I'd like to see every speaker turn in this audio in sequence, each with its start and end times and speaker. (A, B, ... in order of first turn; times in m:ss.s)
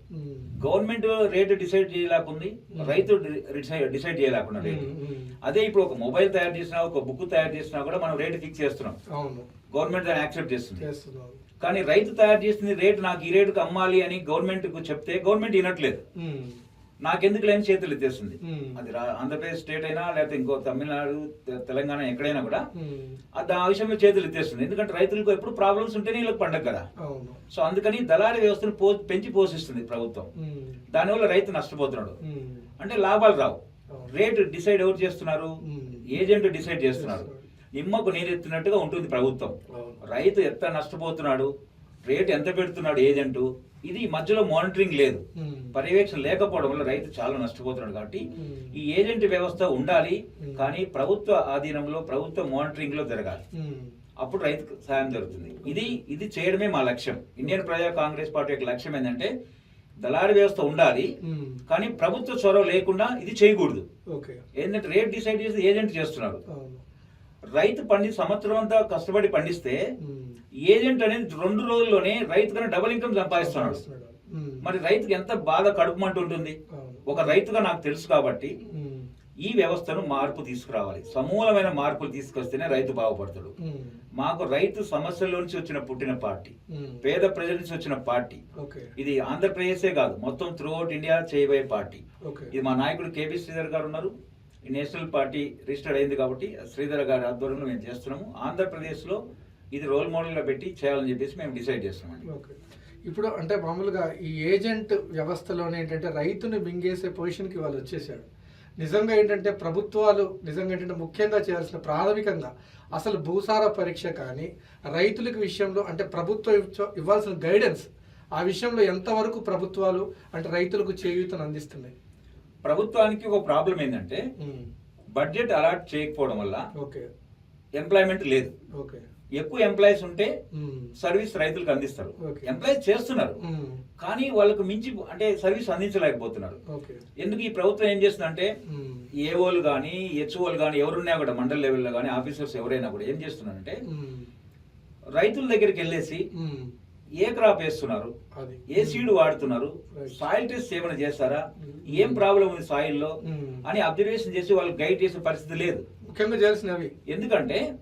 0:00.1-0:00.5 A
0:00.6-0:04.9 B
0:02.8-0:03.1 A
0:04.6-0:05.4 A
0:05.4-0:09.0 B
0:09.2-0:09.5 A
0:09.7-0:10.8 B
0:10.8-0:11.4 A
0:11.6-0:16.0 B
0:16.2-0:16.6 A
0:17.0-0:22.6 B
0:18.4-0:18.8 A
0:22.8-0:23.2 A
0:23.4-0:26.8 B
0:27.0-0:27.4 A
0:27.5-0:30.3 B
0:30.4-0:30.8 A
0:30.9-0:32.2 B
0:32.2-0:32.7 A
0:32.8-0:33.6 B
0:34.1-0:41.5 B
0:35.6-0:36.2 A
0:37.0-0:37.4 A
0:39.7-0:40.0 A
0:42.0-0:45.2 B
0:45.4-0:45.8 A
0:45.7-0:53.4 B
0:48.4-0:48.8 A
0:50.4-0:50.7 A
0:53.6-0:54.0 A
0:54.2-0:59.3 B
0:55.6-0:56.0 A
1:00.0-1:01.1 B
1:01.2-1:01.6 A
1:01.7-1:03.8 B
1:04.6-1:06.4 B
1:06.5-1:06.8 A
1:07.6-1:09.8 B
1:10.0-1:10.4 A
1:10.7-1:13.8 B
1:13.4-1:14.6 A
1:14.6-1:18.5 B
1:16.7-1:17.4 A
1:18.7-1:19.1 A
1:19.4-1:23.5 B
1:23.6-1:24.0 A
1:24.2-1:28.4 B
1:26.7-1:27.0 A
1:28.6-1:28.9 A
1:29.0-1:32.0 B
1:32.3-1:32.5 A
1:32.5-1:34.1 B
1:34.7-1:39.2 B
1:39.7-1:42.2 B
1:42.3-1:42.6 A
1:43.1-1:48.3 A
1:48.8-1:57.9 A
1:58.4-2:01.9 A
2:02.6-2:04.2 B
2:04.4-2:04.7 A
2:05.2-2:06.6 B
2:06.8-2:07.1 A
2:07.8-2:08.5 B
2:08.8-2:09.0 A
2:09.4-2:10.3 B
2:10.5-2:10.9 A
2:11.0-2:13.4 B
2:12.2-2:12.5 A
2:13.4-2:13.8 A
2:14.0-2:16.6 B
2:16.7-2:17.0 A
2:17.2-2:18.5 B
2:18.7-2:19.1 A
2:19.2-2:23.8 B
2:23.9-2:24.3 A
2:25.2-2:26.2 B
2:26.4-2:26.7 A
2:27.2-2:28.1 B
2:28.4-2:29.1 A
2:28.7-2:33.1 B
2:31.6-2:32.2 A
2:33.2-2:33.6 A
2:33.6-2:35.8 B
2:36.1-2:36.9 A
2:37.1-2:37.6 B